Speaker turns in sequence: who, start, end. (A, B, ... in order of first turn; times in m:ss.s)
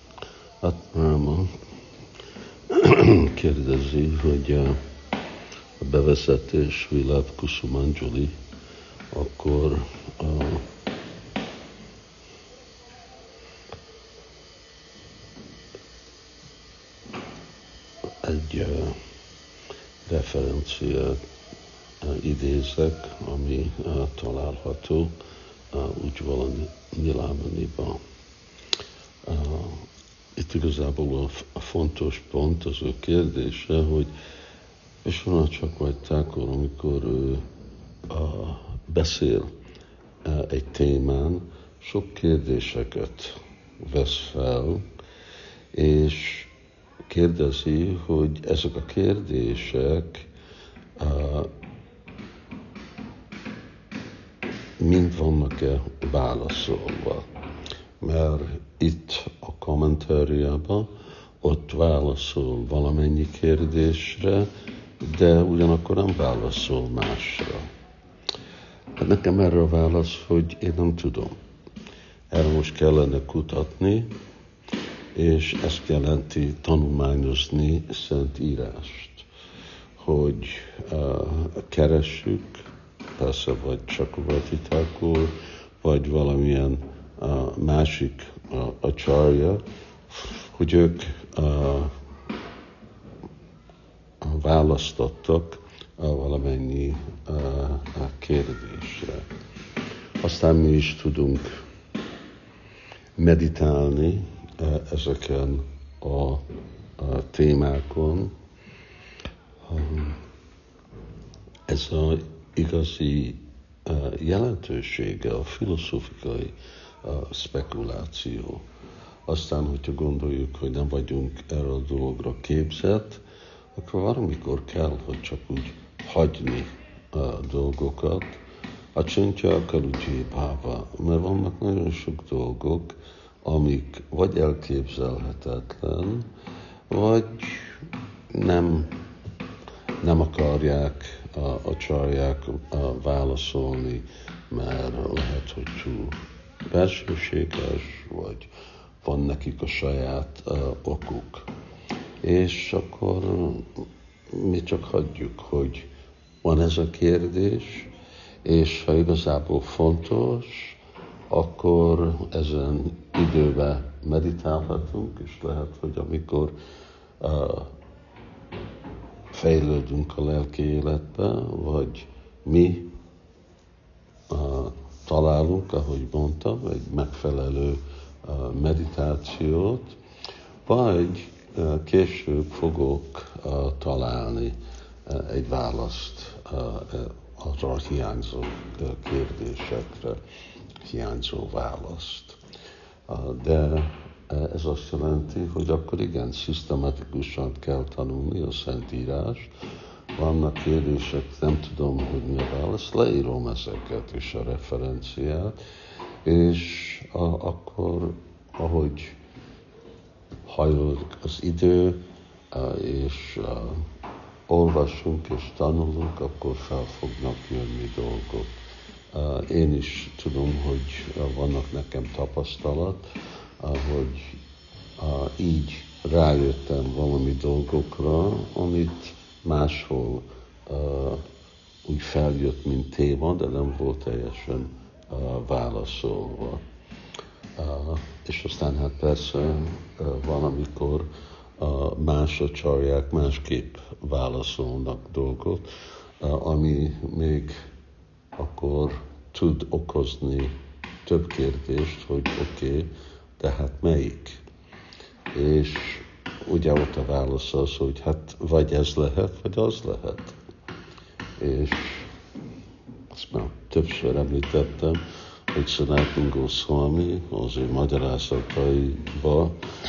0:00.6-0:01.5 A
0:02.7-0:04.8 A
0:05.8-0:08.3 A
0:09.1-0:10.7 A
0:18.2-0:19.0 A
0:20.1-0:21.2 A
0:22.0-0:25.2 A
0:25.7-0:28.0 A
0:29.3-0:34.1 A
0:35.0-0:37.4 A
0:38.1-0:39.5 A
0:40.2-0:44.8 A
0:45.7-0:46.5 A
0:47.0-0:50.3 A
0:51.0-0:51.5 A
0:54.8-0:57.3 A
0:58.0-1:00.9 A
1:01.4-1:07.7 A
1:09.0-1:11.4 A
1:12.3-1:14.2 A
1:15.2-1:19.3 A
1:20.0-1:22.6 A
1:23.2-1:31.9 A
1:34.2-1:39.3 A
1:40.2-1:41.5 A
1:43.2-1:46.4 A
1:47.0-1:48.3 A
1:49.7-1:50.2 A
1:51.7-1:58.6 A
1:59.3-2:03.2 A
2:03.8-2:08.4 A
2:09.0-2:16.3 A
2:16.9-2:17.8 A
2:18.3-2:18.9 A
2:20.0-2:26.2 A
2:26.7-2:28.5 A
2:29.0-2:31.5 A
2:32.2-2:35.9 A
2:36.4-2:37.9 A
2:38.4-2:40.8 A
2:41.3-2:46.6 A
2:47.2-2:47.7 A
2:49.3-2:52.9 A
2:54.3-3:00.0 A
3:00.7-3:04.6 A
3:05.1-3:10.2 A
3:10.8-3:12.4 A
3:13.1-3:19.5 A
3:20.2-3:25.6 A
3:26.2-3:29.2 A
3:30.5-3:33.8 A
3:34.5-3:38.5 A
3:39.1-3:43.0 A
3:43.6-3:44.4 A
3:45.0-3:51.2 A
3:51.8-3:56.6 A
3:57.6-4:01.1 A
4:01.6-4:05.7 A
4:06.2-4:07.5 A
4:08.4-4:14.4 A
4:15.3-4:20.4 A
4:21.4-4:22.1 A
4:23.1-4:25.0 A
4:25.5-4:29.6 A